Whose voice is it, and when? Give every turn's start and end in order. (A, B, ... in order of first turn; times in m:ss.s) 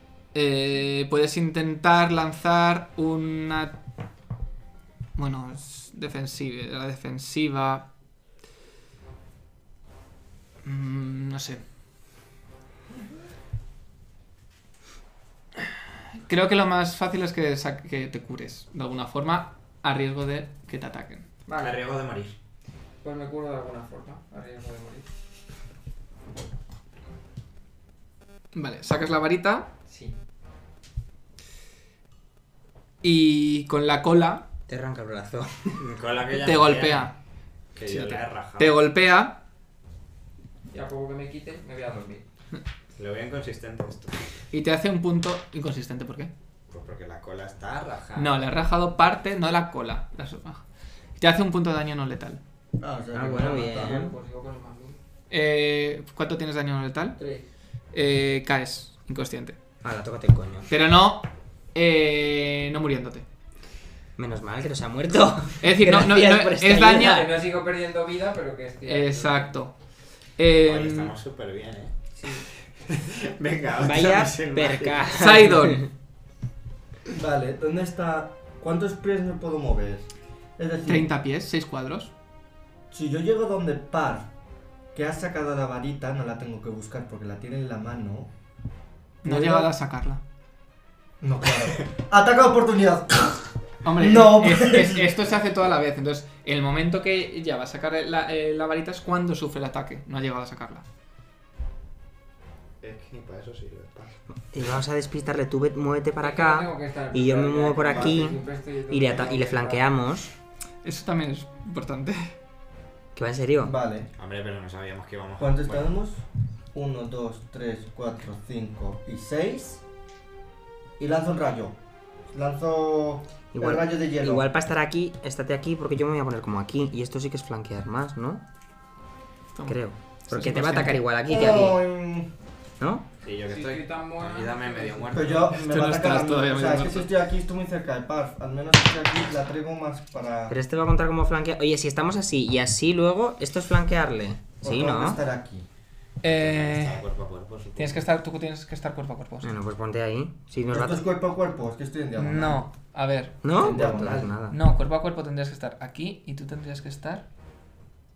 0:00.3-0:03.8 A
0:05.2-0:07.9 A
0:10.6-0:11.6 A
0:16.3-0:21.3 A
0:21.5-0:21.8 B
0:21.6-0:22.3 C
0:23.0-0:25.1 B
0:28.5-0:29.7 A
0:29.9-0:30.2 B
0:33.0-0:34.5 A
0:34.7-0:35.8 D
0:35.8-0:37.1 C
0:36.4-0:37.1 A
0:37.8-0:38.8 C
0:37.9-0:39.4 A
0:40.7-0:42.2 B
0:43.0-0:44.2 C
0:44.5-0:46.3 A
0:46.7-0:48.4 C
0:48.2-0:50.6 A
0:51.2-0:52.4 A
0:52.8-0:54.0 E
0:53.1-0:54.2 D
0:53.3-0:55.0 B
0:55.3-0:57.2 A
0:57.2-0:57.4 B
0:57.9-0:59.6 A
0:59.8-1:00.7 D
1:00.7-1:03.2 A
1:04.2-1:07.3 D
1:05.6-1:07.3 A
1:07.0-1:09.6 B
1:08.9-1:09.7 A
1:10.4-1:11.1 A
1:10.6-1:15.3 C
1:13.8-1:15.9 D
1:15.2-1:15.9 A
1:17.1-1:21.1 E
1:20.9-1:22.1 A
1:22.9-1:24.3 E
1:24.9-1:28.3 E
1:29.2-1:29.7 E
1:29.2-1:30.2 A
1:31.2-1:35.1 E
1:33.8-1:40.8 A
1:42.8-1:44.1 C
1:44.5-1:50.3 D
1:46.2-1:49.9 B
1:50.8-1:52.3 A
1:53.2-1:53.7 D
1:53.6-1:54.1 E
1:54.2-1:55.9 C
1:55.4-1:56.2 E
1:56.7-1:59.8 E
2:01.0-2:01.8 E
2:02.3-2:04.5 E
2:03.5-2:08.4 D
2:09.6-2:11.0 A
2:09.7-2:11.8 D
2:11.3-2:12.3 E
2:12.8-2:13.1 D
2:13.2-2:15.6 C
2:13.5-2:15.4 B
2:15.1-2:20.6 E
2:15.5-2:17.1 A
2:20.5-2:25.2 D
2:24.6-2:25.6 E
2:26.2-2:27.0 A
2:26.2-2:28.0 C
2:27.8-2:29.5 A
2:29.4-2:31.0 D
2:30.7-2:32.6 E
2:32.2-2:33.4 A
2:33.4-2:34.6 D
2:33.5-2:34.4 E
2:34.5-2:37.2 A